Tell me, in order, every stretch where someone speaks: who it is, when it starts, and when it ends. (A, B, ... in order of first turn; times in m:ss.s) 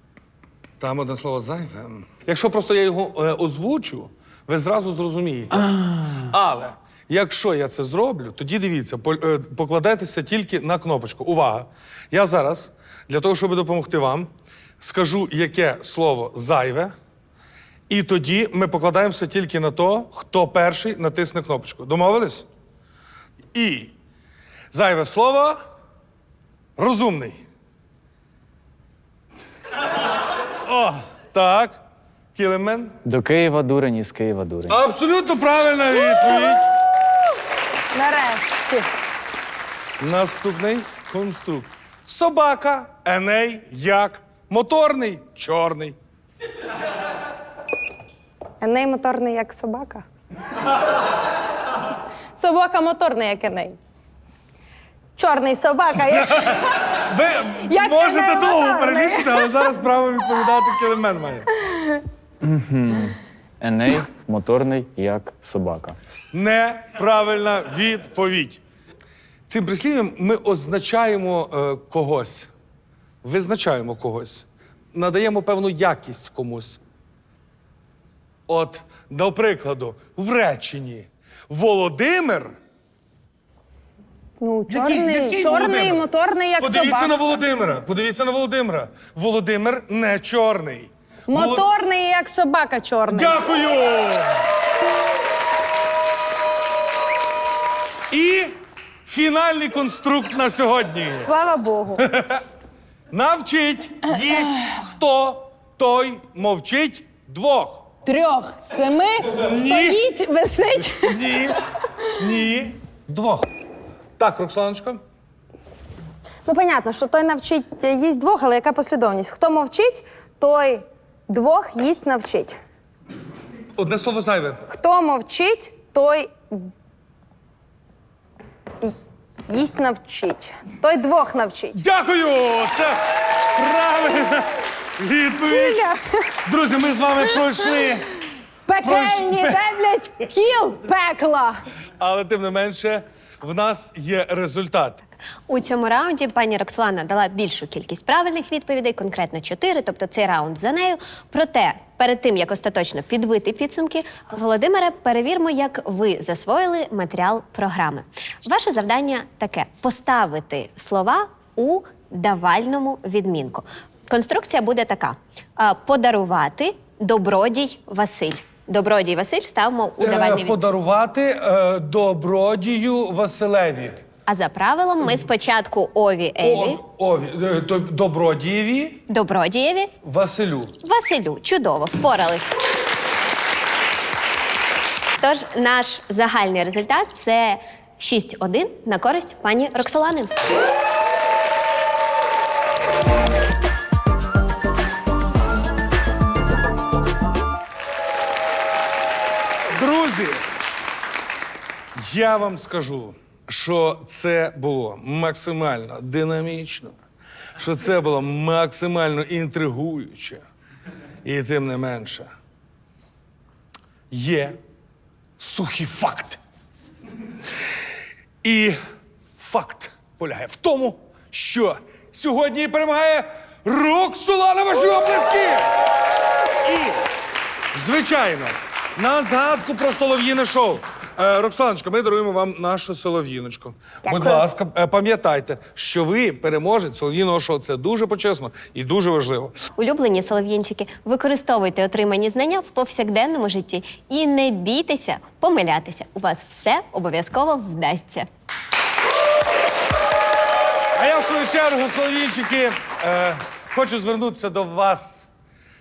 0:00.8-0:16.9 A
0:17.9-0:22.5 A
0:23.5-0:23.9 A
0:24.7-0:25.6 A
0:26.8-0:27.4 A
0:30.6-0:31.8 A
0:32.3-0:33.0 A
0:33.0-0:34.8 B
0:34.7-0:36.7 A
0:37.9-0:38.9 C
0:40.0-0:46.0 A
0:48.6-0:50.0 C
0:52.4-0:53.8 C
0:55.2-0:56.8 C
0:56.1-1:01.5 A
0:57.7-0:59.6 C
1:02.4-1:06.0 B
1:06.3-1:08.6 A
1:09.5-1:12.5 A
1:13.2-1:16.8 A
1:18.5-1:22.5 A
1:24.4-1:27.1 C
1:24.7-1:26.0 A
1:26.6-1:31.6 A
1:31.3-1:33.4 C
1:33.1-1:34.4 A
1:38.1-1:41.3 A
1:41.2-1:42.0 C
1:42.0-1:42.4 A
1:43.1-1:47.9 A
1:48.0-1:51.2 C
1:49.4-1:50.0 A
1:50.7-1:51.6 A
1:52.1-1:53.5 A
1:54.2-1:55.0 A
1:56.4-2:02.6 C
2:03.8-2:04.6 A
2:04.7-2:06.7 C
2:09.5-2:11.8 C
2:11.7-2:15.9 A
2:15.5-2:16.0 C
2:16.4-2:18.1 A
2:18.7-2:21.6 C
2:18.8-2:19.9 A
2:22.0-2:25.0 A
2:25.5-2:50.6 D
2:50.0-2:54.0 A
2:54.3-2:56.8 D
2:56.4-2:59.0 A
2:59.1-2:59.9 D
3:00.0-3:00.7 A
3:00.8-3:02.5 D
3:05.2-3:10.3 D
3:19.7-3:20.4 A
3:22.0-3:26.9 A
3:27.6-3:30.4 A
3:31.2-3:32.3 A
3:34.1-3:34.6 A
3:35.4-3:36.4 A
3:38.4-3:38.8 A
3:39.4-3:45.7 A
3:46.6-3:47.0 A
3:47.7-3:59.6 A
3:54.1-3:54.4 C
3:59.8-4:08.3 D
4:10.9-4:15.3 A